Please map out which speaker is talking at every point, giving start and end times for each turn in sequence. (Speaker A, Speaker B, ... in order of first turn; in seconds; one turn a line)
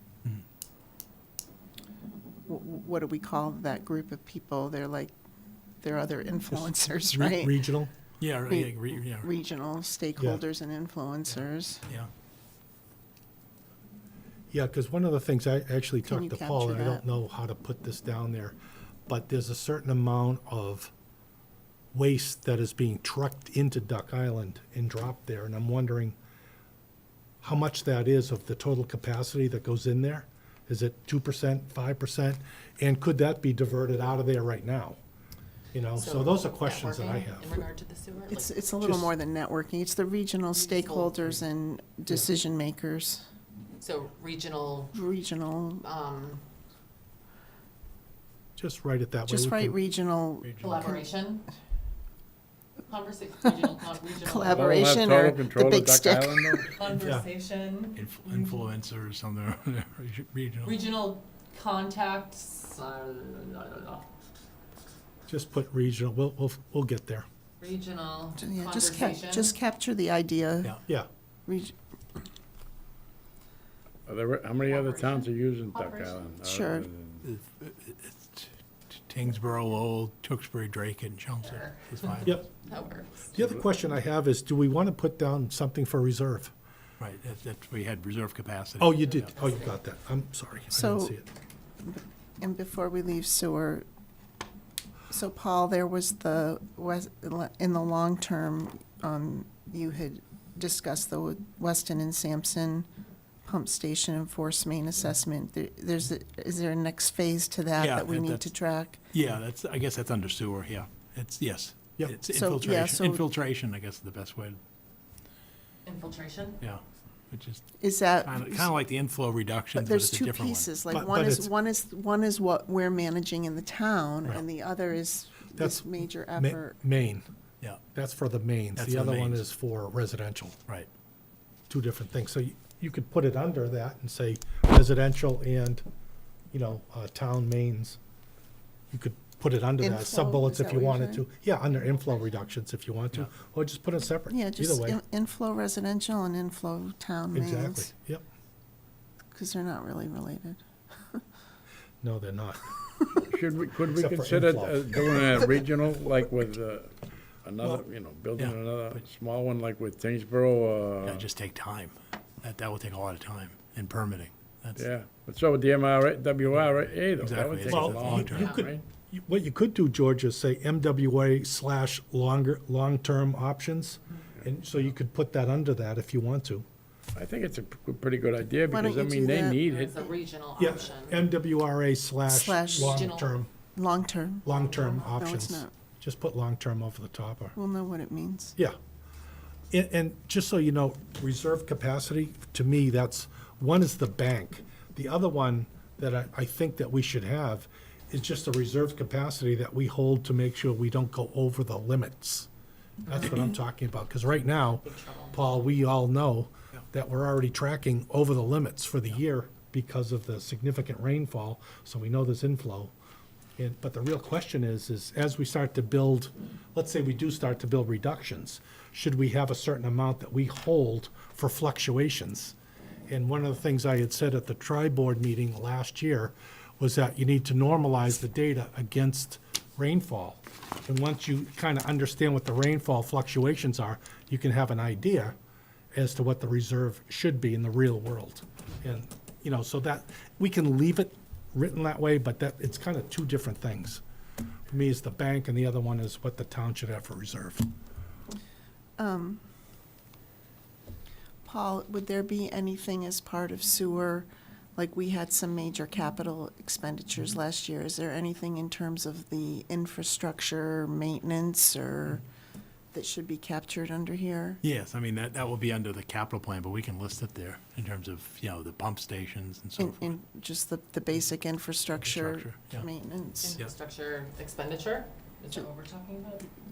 Speaker A: 2.5-5.1
Speaker A: 5.8-7.6
Speaker B: 6.5-7.9
Speaker C: 8.2-9.3
Speaker A: 8.5-11.9
Speaker B: 10.2-10.4
Speaker B: 14.5-18.6
Speaker A: 16.0-17.0
Speaker B: 19.1-20.9
Speaker B: 21.9-26.2
Speaker B: 27.4-35.0
Speaker B: 35.7-37.5
Speaker D: 36.0-38.5
Speaker A: 38.3-43.3
Speaker B: 38.8-39.1
Speaker D: 40.5-41.3
Speaker D: 43.8-45.0
Speaker A: 44.9-45.9
Speaker D: 45.8-46.4
Speaker B: 48.6-49.8
Speaker A: 49.3-51.0
Speaker C: 50.4-50.9
Speaker D: 50.6-51.5
Speaker D: 52.9-54.9
Speaker A: 54.2-56.7
Speaker E: 54.5-56.7
Speaker D: 56.6-58.6
Speaker B: 56.9-57.3
Speaker C: 58.0-60.8
Speaker D: 60.6-64.0
Speaker B: 65.3-67.3
Speaker D: 67.6-69.5
Speaker A: 68.4-70.8
Speaker A: 71.5-71.7
Speaker E: 74.1-77.2
Speaker D: 74.7-76.2
Speaker A: 76.4-76.9
Speaker C: 77.2-82.4
Speaker D: 81.4-83.3
Speaker B: 83.3-86.5
Speaker C: 87.0-89.1
Speaker B: 88.8-91.3
Speaker D: 89.0-89.8
Speaker A: 90.7-91.2
Speaker A: 91.8-93.8
Speaker A: 95.1-102.9
Speaker A: 103.5-109.0
Speaker C: 107.8-108.5
Speaker C: 109.1-114.6
Speaker A: 112.3-113.3
Speaker D: 115.8-116.6
Speaker C: 116.6-117.7
Speaker A: 117.8-118.7
Speaker C: 118.2-120.7
Speaker A: 119.7-126.8
Speaker B: 120.9-121.5
Speaker B: 125.5-127.3
Speaker B: 127.9-130.6
Speaker C: 128.8-129.4
Speaker B: 131.7-135.8
Speaker B: 136.5-138.0
Speaker B: 138.9-145.0
Speaker A: 139.8-141.3
Speaker A: 144.3-147.9
Speaker B: 147.3-148.2
Speaker A: 149.3-150.6
Speaker B: 152.0-152.7
Speaker E: 153.3-161.2
Speaker B: 153.9-155.5
Speaker C: 158.4-159.0
Speaker C: 161.0-164.9
Speaker E: 164.8-168.8
Speaker C: 167.2-168.6
Speaker B: 167.7-176.7
Speaker D: 168.4-168.7
Speaker E: 177.2-180.0
Speaker A: 178.7-179.7
Speaker D: 179.7-181.3
Speaker B: 180.6-183.5
Speaker A: 182.3-183.1
Speaker D: 182.6-183.3
Speaker A: 183.8-185.7
Speaker B: 184.4-187.6
Speaker A: 187.6-188.6
Speaker B: 189.7-202.5
Speaker B: 203.1-212.9
Speaker D: 204.7-205.5
Speaker B: 213.6-222.6
Speaker B: 223.1-235.4
Speaker B: 235.9-244.0
Speaker B: 244.7-247.7
Speaker A: 249.0-249.4
Speaker A: 251.4-262.2
Speaker A: 262.9-264.6
Speaker C: 264.6-270.1
Speaker A: 269.8-273.6
Speaker C: 272.0-272.9
Speaker D: 273.4-276.5